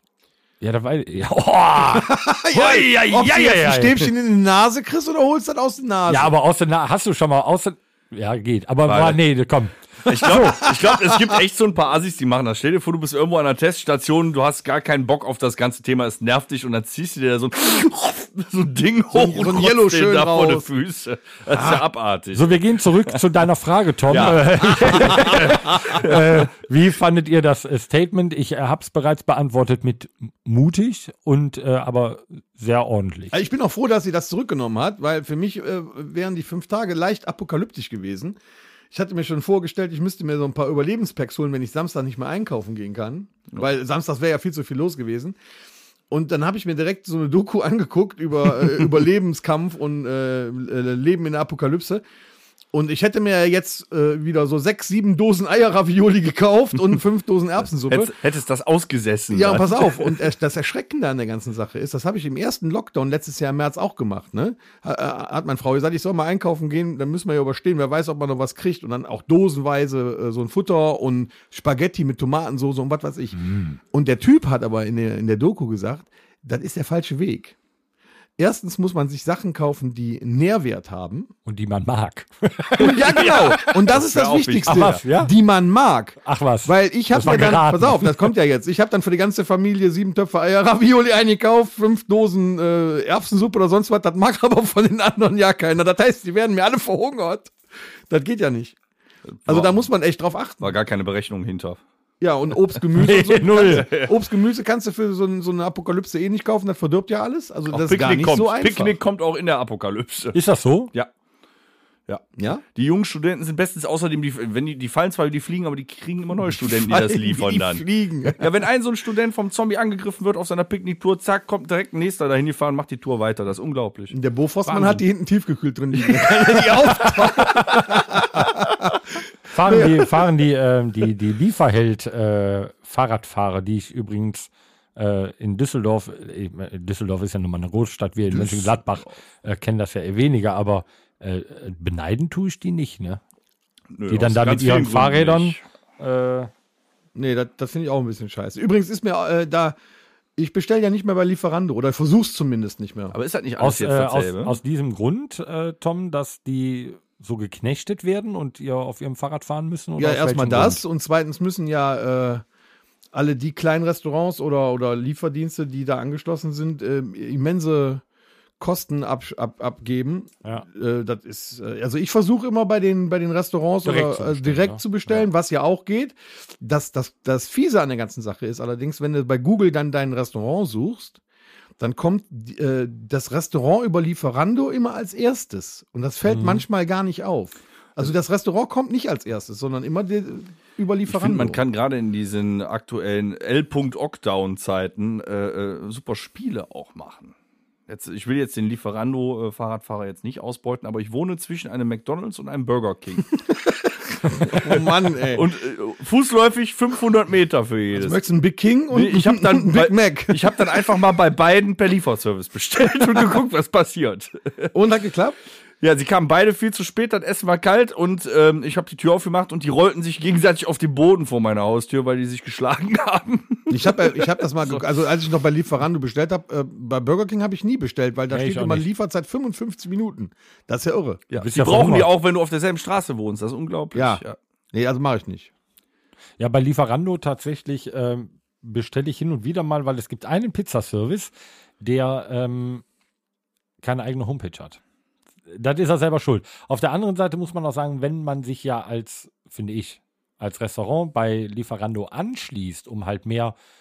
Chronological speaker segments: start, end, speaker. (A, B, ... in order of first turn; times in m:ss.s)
0:00.6-0:04.1 A
0:01.8-0:06.3 B
0:06.1-0:10.7 A
0:08.9-0:09.2 C
0:10.0-0:23.1 C
0:10.9-0:11.2 B
0:19.1-0:20.6 B
0:21.5-0:21.8 B
0:22.3-0:33.4 A
0:24.1-0:26.4 C
0:33.3-0:38.4 B
0:38.9-0:45.4 B
0:46.1-0:52.0 B
0:52.7-0:58.1 B
0:57.9-1:00.2 C
0:59.3-1:17.6 B
1:13.4-1:13.8 A
1:18.4-1:21.3 B
1:21.5-1:23.7 A
1:22.8-1:37.5 B
1:23.1-1:25.0 C
1:24.7-1:25.3 A
1:26.2-1:28.3 A
1:38.1-1:38.8 B
1:39.3-1:39.8 C
1:39.5-1:40.8 B
1:40.6-1:41.8 C
1:42.2-1:49.0 B
1:42.9-1:43.9 A
1:43.8-1:44.1 C
1:47.7-1:50.4 C
1:50.3-1:50.9 A
1:52.1-2:05.0 C
1:52.4-1:52.6 B
1:56.5-1:58.5 B
2:04.1-2:09.0 B
2:06.0-2:06.9 C
2:09.5-2:23.2 A
2:09.6-2:10.1 B
2:23.9-2:25.6 C
2:24.1-2:26.5 A
2:27.1-2:29.8 B
2:30.4-2:33.1 B
2:33.1-2:34.6 C
2:33.6-2:40.8 A
2:40.0-2:42.4 B
2:43.1-2:48.0 B
2:48.6-3:01.2 B
2:53.8-2:54.8 A
3:01.8-3:11.6 B
3:06.3-3:06.6 A
3:11.1-3:17.4 C
3:17.9-3:23.4 C
3:24.2-3:25.5 B
3:24.2-3:28.2 C
3:27.9-3:30.6 B
3:28.9-3:34.7 C
3:34.7-3:35.4 B
3:35.8-3:44.8 C
3:43.7-3:51.2 B
3:48.3-3:48.9 A
3:51.3-3:54.4 C
3:51.4-3:52.1 A
3:53.9-3:55.5 B
3:56.4-4:02.8 A
4:03.8-4:04.8 A
4:05.5-4:13.6 A